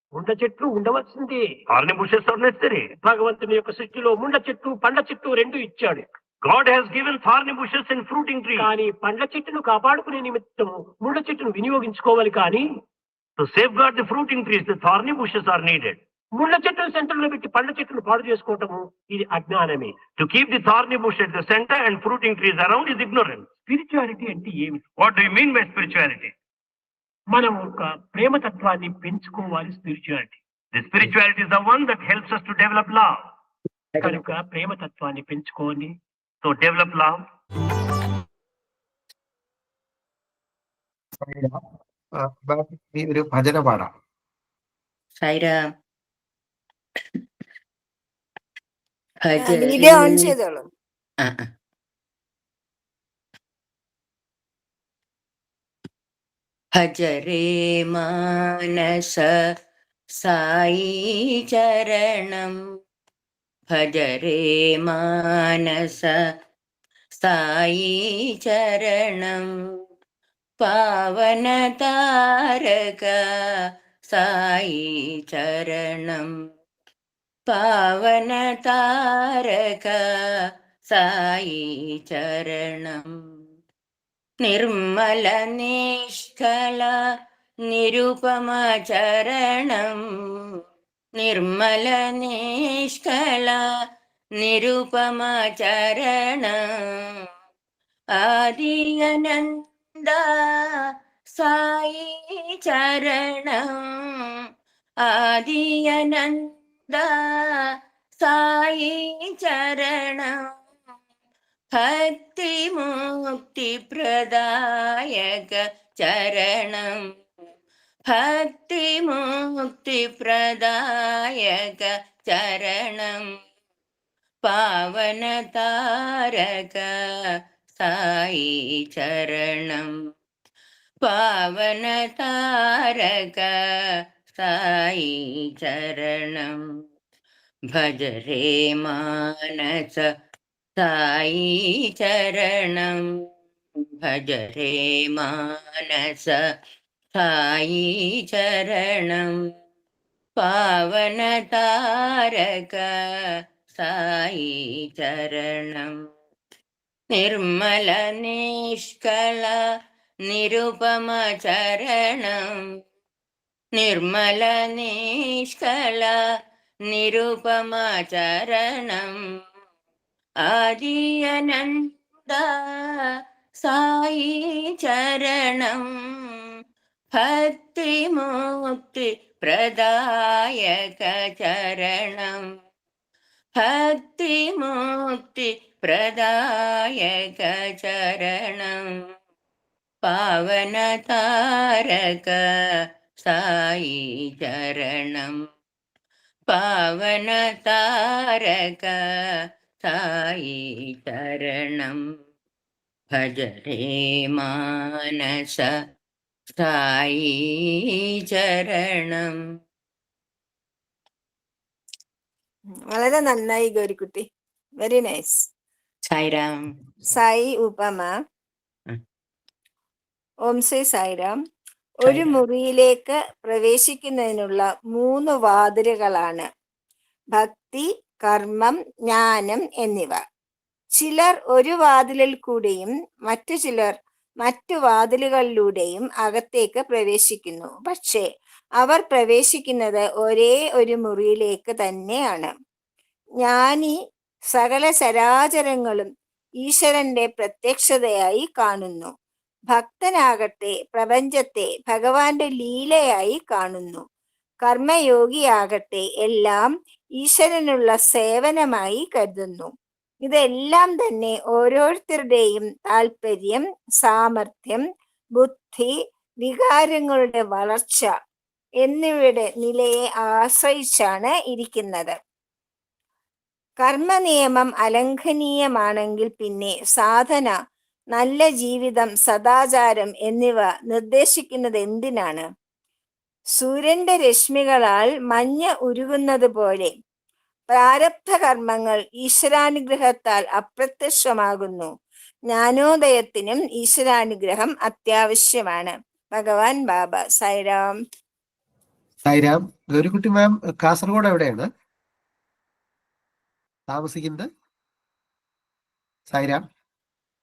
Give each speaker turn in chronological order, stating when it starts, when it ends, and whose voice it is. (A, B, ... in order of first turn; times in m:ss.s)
0:00.1-0:01.4 A
0:01.7-0:02.9 B
0:03.0-0:06.0 A
0:06.4-0:08.7 B
0:08.6-0:12.6 A
0:13.4-0:16.0 B
0:16.4-0:20.0 A
0:20.2-0:23.5 B
0:23.7-0:24.9 A
0:25.0-0:26.3 B
0:27.3-0:30.4 A
0:30.7-0:33.3 B
0:34.0-0:35.9 A
0:36.4-0:37.2 B
0:41.2-0:41.6 C
0:42.1-0:43.9 C
0:45.2-0:45.6 D
0:49.2-0:50.2 D
0:49.4-0:50.6 E
0:56.8-0:59.4 D
1:00.2-1:02.6 D
1:03.7-1:06.2 D
1:07.2-1:09.5 D
1:10.6-1:13.2 D
1:14.1-1:16.3 D
1:17.5-1:20.0 D
1:20.9-1:23.1 D
1:24.4-1:27.0 D
1:27.7-1:30.4 D
1:31.2-1:33.6 D
1:34.4-1:37.2 D
1:38.2-1:44.4 D
1:45.0-1:50.5 D
1:51.7-1:57.0 D
1:58.1-2:03.3 D
2:04.4-2:07.0 D
2:07.8-2:10.0 D
2:11.0-2:16.6 D
2:17.7-2:20.0 D
2:20.8-2:23.0 D
2:24.0-2:26.4 D
2:27.1-2:29.4 D
2:30.4-2:33.0 D
2:33.8-2:36.0 D
2:37.1-2:39.6 D
2:40.3-2:42.6 D
2:43.8-2:46.2 D
2:46.9-2:49.2 D
2:50.4-2:53.1 D
2:53.6-2:56.4 D
2:57.1-3:02.5 D
3:03.6-3:09.0 D
3:10.0-3:12.4 D
3:13.2-3:15.4 D
3:16.5-3:19.1 D
3:19.8-3:22.0 D
3:23.1-3:25.7 D
3:26.6-3:29.4 D
3:32.9-3:34.2 E
3:34.8-3:35.4 E
3:36.1-3:36.6 D
3:37.1-3:38.1 E
3:40.5-3:41.4 E
3:42.0-3:42.4 D
3:42.0-3:46.4 E
3:47.3-3:50.2 E
3:51.0-3:58.2 E
3:58.8-4:02.5 E
4:03.4-4:03.9 E
4:04.5-4:06.1 E
4:06.6-4:09.1 E
4:09.7-4:14.0 E
4:14.6-4:16.6 E
4:17.2-4:19.7 E
4:20.2-4:24.8 E
4:25.4-4:25.9 E
4:26.4-4:28.1 E
4:28.8-4:32.1 E
4:33.8-4:37.5 E
4:38.1-4:42.4 E
4:43.6-4:46.9 E
4:47.7-4:51.9 E
4:52.5-4:57.9 E
4:59.2-5:01.7 C
5:03.9-5:04.5 C
5:06.3-5:06.6 C